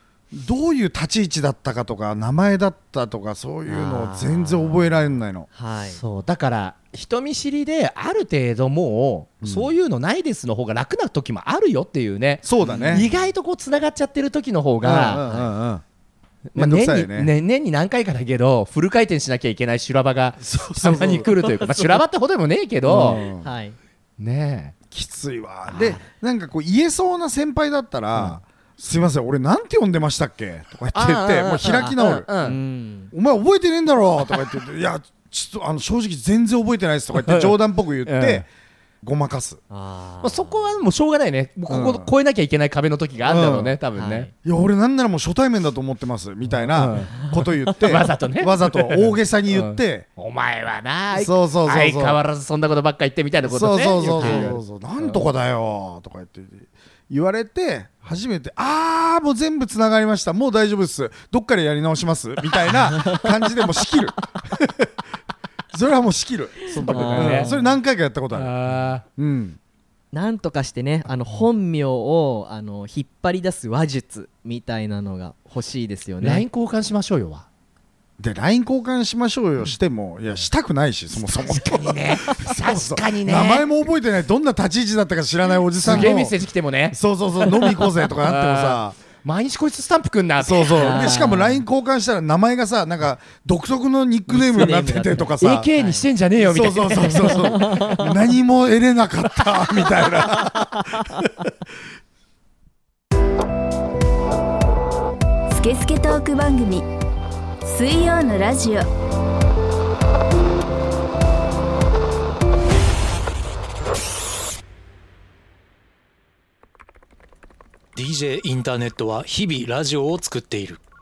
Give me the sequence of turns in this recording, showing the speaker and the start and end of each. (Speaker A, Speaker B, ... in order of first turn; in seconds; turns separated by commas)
Speaker A: 0.3-5.5, Speaker B: 3.7-4.9, Speaker B: 5.5-6.0, Speaker C: 5.9-15.2, Speaker A: 9.4-9.7, Speaker A: 12.4-13.1, Speaker B: 12.6-13.1, Speaker A: 14.8-15.8, Speaker B: 15.1-15.5, Speaker C: 16.5-23.2, Speaker A: 16.6-17.3, Speaker A: 20.4-21.2, Speaker B: 21.2-22.0, Speaker A: 22.9-23.5, Speaker B: 22.9-23.8, Speaker C: 24.2-24.7, Speaker A: 24.9-32.3, Speaker C: 25.7-26.0, Speaker C: 28.1-28.4, Speaker C: 30.9-32.6, Speaker B: 31.7-33.1, Speaker A: 33.1-38.5, Speaker C: 37.1-38.4, Speaker A: 39.0-39.6, Speaker B: 39.7-40.6, Speaker C: 40.2-44.3, Speaker A: 41.7-42.1, Speaker A: 43.3-43.7, Speaker B: 44.0-44.3, Speaker A: 44.4-50.0, Speaker C: 46.6-47.2, Speaker C: 47.7-55.3, Speaker A: 51.1-52.2, Speaker A: 53.4-64.9, Speaker B: 54.1-54.5, Speaker A: 65.7-69.6, Speaker B: 66.7-67.7, Speaker C: 66.8-67.5, Speaker C: 68.3-69.0, Speaker B: 70.1-76.5, Speaker C: 76.2-77.5, Speaker A: 78.2-86.3, Speaker C: 81.1-83.7, Speaker C: 85.8-91.3, Speaker A: 86.9-89.0, Speaker A: 90.4-95.7, Speaker B: 90.8-91.6, Speaker B: 94.3-96.1, Speaker C: 95.4-97.8, Speaker A: 96.4-101.3, Speaker B: 96.9-98.1, Speaker D: 105.5-106.9, Speaker D: 107.6-108.9, Speaker E: 117.9-120.8